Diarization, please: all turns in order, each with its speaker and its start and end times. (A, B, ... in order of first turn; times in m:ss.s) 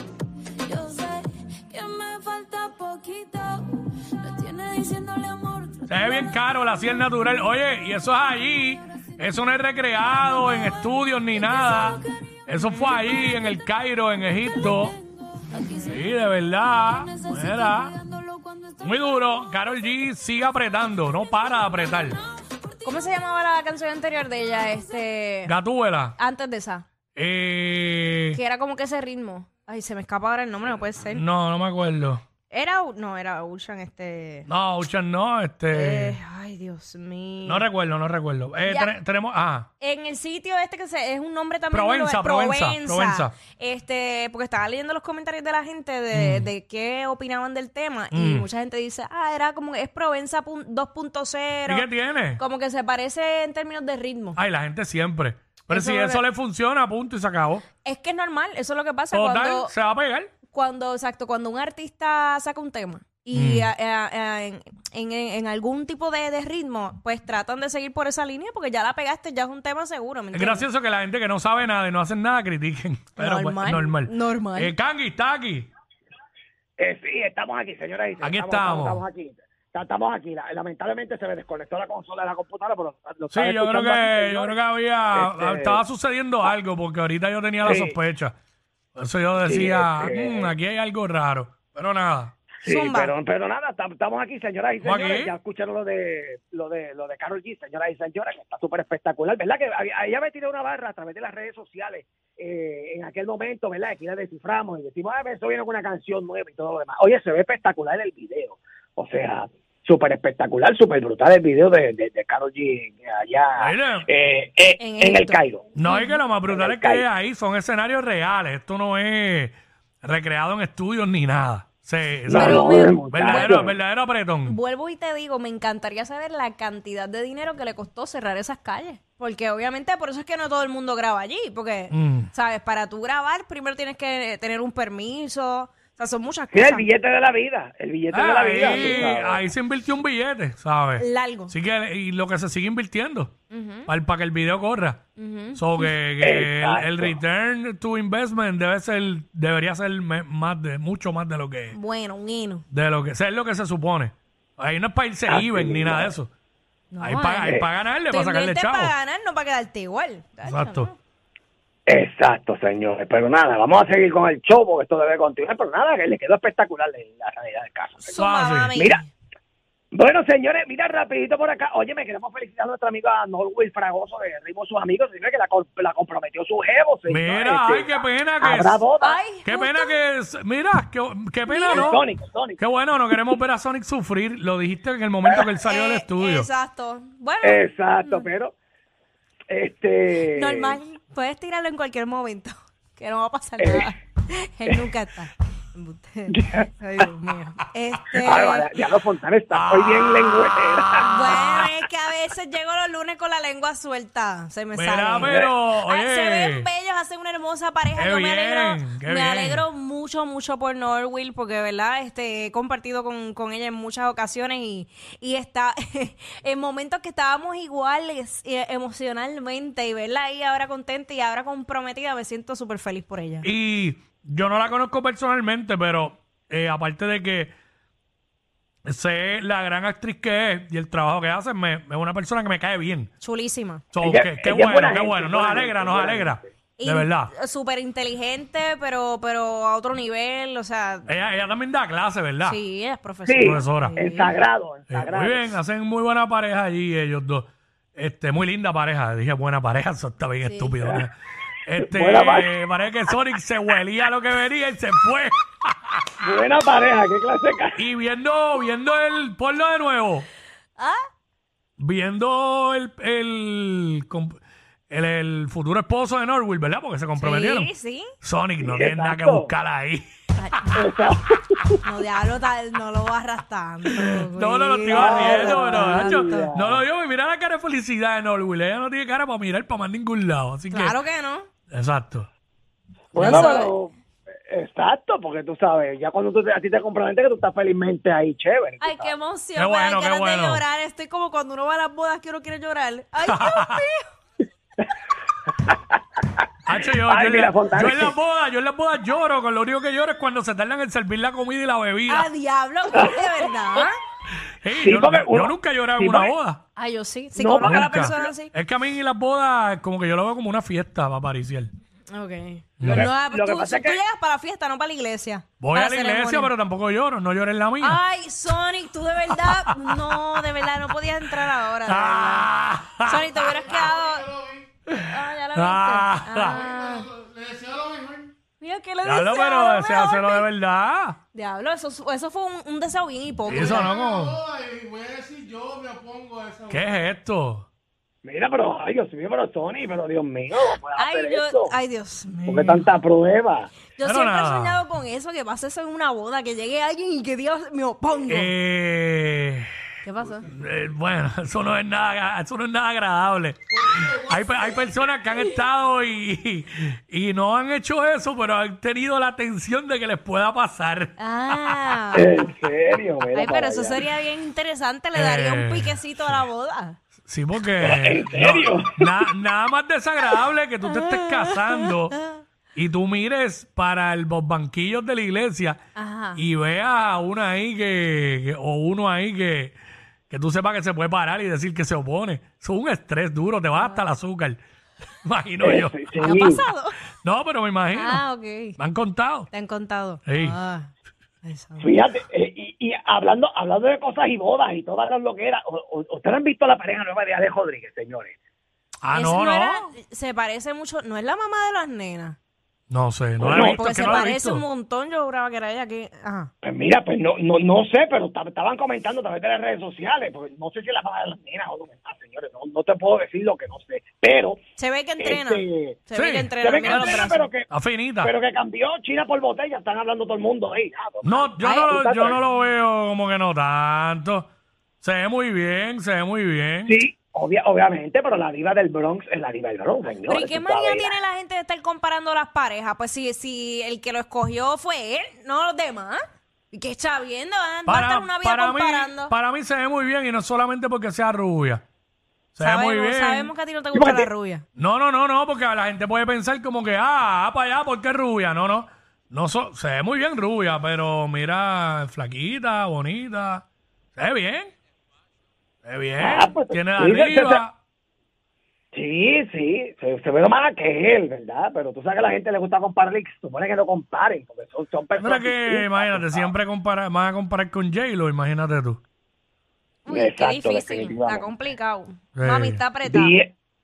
0:00.6-0:07.2 A
0:05.9-0:15.0 B
0:08.2-0:09.4 A
0:10.1-0:19.9 A
0:12.6-0:13.0 C
0:15.9-0:18.0 B
0:18.8-0:22.2 B
0:21.0-0:23.4 A
0:22.8-0:25.5 C
0:24.5-0:24.9 A
0:25.5-0:26.2 B
0:26.2-0:26.9 C
0:27.2-0:28.4 B
0:28.3-0:31.2 C
0:31.1-0:32.2 B
0:32.5-0:34.5 C
0:34.5-0:36.2 B
0:35.7-0:37.7 C
0:37.4-0:39.7 B
0:38.7-0:38.9 C
0:39.8-0:51.9 C
0:41.7-0:43.4 B
0:46.1-0:46.5 B
0:48.1-0:48.5 B
0:51.7-0:52.4 B
0:52.4-0:54.4 C
0:54.4-0:57.6 B
0:55.7-0:56.2 C
0:57.8-0:59.7 C
0:59.1-1:00.3 B
1:00.5-1:10.7 C
1:03.3-1:03.7 B
1:10.3-1:15.7 B
1:13.2-1:14.7 C
1:16.8-1:25.8 D
1:18.2-1:19.0 B
1:23.3-1:28.4 B
1:27.6-1:28.0 D
1:29.0-1:32.4 B
1:29.4-1:30.6 D
1:32.6-1:55.7 D
1:32.6-1:33.1 C
1:34.8-1:35.3 B
1:53.6-1:54.1 B
1:54.8-1:56.2 C
1:55.8-2:04.6 B
1:56.4-1:57.1 D
2:02.2-2:03.8 D
2:02.3-2:03.6 C
2:04.4-2:16.9 C
2:11.9-2:12.3 B
2:16.5-2:19.5 D
2:18.1-2:23.3 B
2:18.6-2:19.2 C
2:21.0-2:21.5 C
2:23.5-2:23.9 C
2:23.9-2:25.0 B
2:25.2-2:25.9 C
2:25.6-2:31.8 B
2:26.2-2:27.2 D
2:31.7-2:32.6 C
2:32.7-2:36.3 B
2:35.3-2:36.2 D
2:36.9-2:37.5 C
2:37.0-2:38.9 B
2:37.4-2:37.7 D
2:38.1-2:40.9 C
2:40.4-2:40.9 B
2:41.9-2:49.0 D
2:48.0-2:49.1 C
2:48.2-2:48.8 B
2:49.9-2:59.3 D
2:57.1-2:58.8 B
2:59.0-2:59.9 C
2:59.4-3:02.0 B
3:01.5-3:01.9 C
3:01.7-3:03.4 D
3:02.6-3:06.5 B
3:05.3-3:05.5 D
3:05.6-3:08.3 C
3:07.4-3:08.5 D
3:09.5-3:10.8 D
3:10.3-3:18.7 C
3:13.6-3:13.9 D
3:16.3-3:17.1 D
3:18.2-3:21.6 D
3:19.5-3:21.6 B
3:21.0-3:43.5 C
3:24.8-3:26.7 B
3:25.2-3:25.5 D
3:28.0-3:29.7 B
3:43.4-3:47.5 B
3:48.9-3:53.1 B
3:53.2-3:53.8 C
3:53.9-3:57.3 B
3:54.0-3:56.4 D
3:56.8-4:01.1 C
4:01.1-4:02.6 B
4:02.4-4:04.3 C
4:03.3-4:05.6 D
4:03.4-4:04.0 B
4:04.9-4:16.2 B
4:10.4-4:10.8 C
4:11.8-4:12.6 D
4:16.2-4:17.8 D
4:17.8-4:20.3 B
4:20.8-4:21.0 C
4:21.8-4:27.7 B
4:27.2-4:28.1 C
4:28.2-4:30.6 B
4:28.6-4:29.5 D
4:30.4-4:30.7 C
4:30.8-4:31.8 D
4:31.8-4:36.5 C
4:33.9-4:41.0 B
4:34.9-4:36.8 D
4:40.7-4:41.5 C
4:41.7-4:42.3 B
4:43.1-4:43.9 D
4:43.2-4:43.8 C
4:44.5-4:49.1 D
4:48.8-4:54.0 C
4:49.6-4:50.6 B
4:53.3-4:53.8 B
4:55.6-4:56.4 D
4:56.6-5:02.3 B
4:57.0-4:58.2 D
5:02.1-5:04.0 C
5:02.9-5:03.3 D
5:04.4-5:06.6 B
5:04.7-5:06.3 D
5:06.8-5:08.5 C
5:07.4-5:08.2 D
5:07.6-5:11.7 B
5:12.1-5:16.5 C
5:12.8-5:13.1 B
5:12.8-5:14.0 D
5:15.6-5:18.0 B
5:17.8-5:22.5 C
5:19.4-5:20.4 B
5:21.4-5:23.9 B
5:23.0-5:24.2 C
5:24.9-5:26.6 B
5:25.0-5:27.1 C
5:27.1-5:28.3 E
5:28.6-5:30.5 C
5:29.0-5:31.2 B
5:31.3-5:33.9 C
5:33.5-5:34.4 B
5:34.4-5:36.6 E
5:36.6-5:37.7 B
5:38.2-5:41.7 D
5:41.0-5:42.9 C
5:42.5-5:43.7 D
5:44.0-5:48.5 C
5:44.0-5:44.8 B
5:48.3-5:49.7 B
5:50.0-5:50.5 C
5:50.5-6:02.0 B
6:01.2-6:02.4 C
6:02.1-6:04.0 D
6:03.3-6:07.0 C
6:05.2-6:06.4 B
6:07.3-6:12.2 B
6:07.8-6:09.3 D
6:10.8-6:12.4 C
6:12.8-6:15.8 B
6:16.0-6:16.4 C
6:16.4-6:19.8 B
6:20.3-6:24.6 B
6:23.8-6:24.0 C
6:25.2-6:26.2 B
6:25.6-6:26.6 D
6:26.2-6:27.0 C
6:27.2-6:28.2 B
6:27.9-6:28.8 C
6:28.8-6:29.5 B
6:29.5-6:30.9 C
6:30.3-6:30.6 B
6:31.4-6:31.9 C
6:31.8-6:38.3 D
6:39.0-6:39.9 B
6:39.1-6:42.4 C
6:42.9-6:44.6 B
6:43.4-6:44.3 D
6:43.4-6:46.5 C
6:46.6-6:54.6 D
6:54.8-6:57.5 C
6:55.2-6:56.0 D
6:56.1-6:58.3 B
6:56.6-7:02.4 D
7:01.2-7:04.5 B
7:01.6-7:01.9 C
7:05.0-7:07.0 B
7:06.9-7:11.2 D
7:10.3-7:19.3 C
7:17.9-7:21.8 B
7:22.6-7:23.5 B
7:22.6-7:24.6 C
7:23.9-7:24.3 D
7:24.8-7:33.6 B
7:34.2-7:34.7 B
7:35.8-7:37.7 B
7:36.2-7:37.6 D
7:38.9-7:46.5 D
7:45.2-7:49.0 B
7:50.0-7:53.3 C
7:50.1-7:51.5 D
7:52.4-7:52.8 B
7:53.0-7:53.5 D